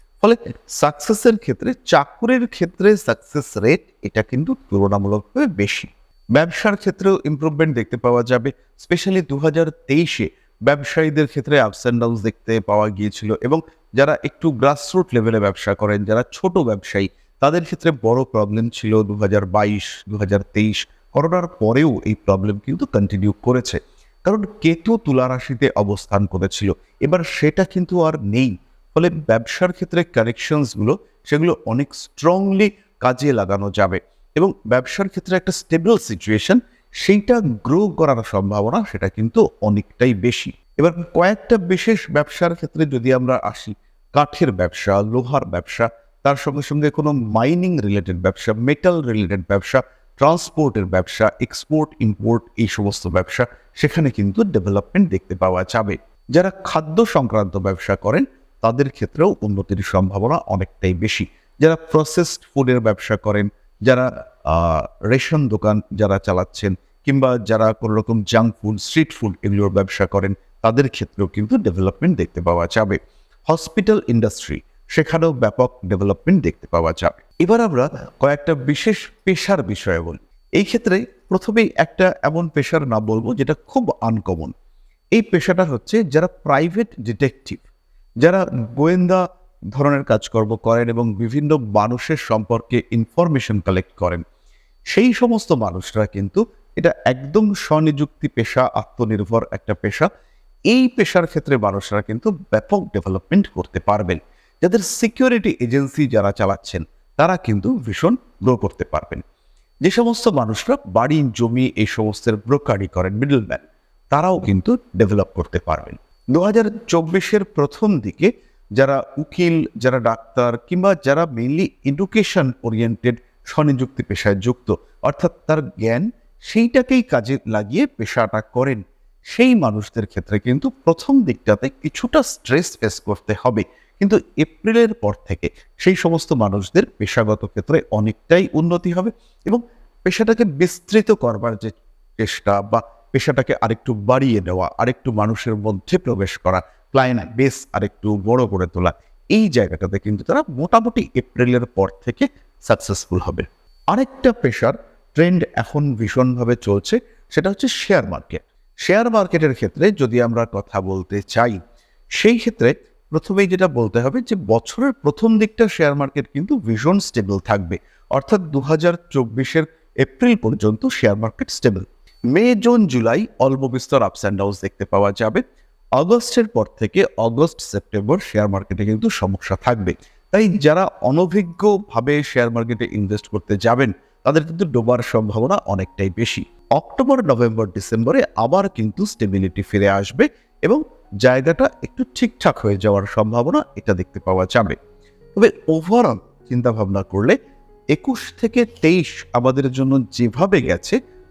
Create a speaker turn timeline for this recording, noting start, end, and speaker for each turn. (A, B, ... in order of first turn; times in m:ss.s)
0:00.2-1:13.0 A
1:13.5-1:24.5 A
1:25.1-1:27.6 A
1:28.2-1:34.2 A
1:34.9-1:40.1 A
1:40.7-1:49.2 A
1:49.8-1:53.6 A
1:54.1-2:41.6 A
2:42.2-2:55.4 A
2:56.0-3:14.8 A
3:15.4-3:17.4 A
3:17.9-3:21.0 A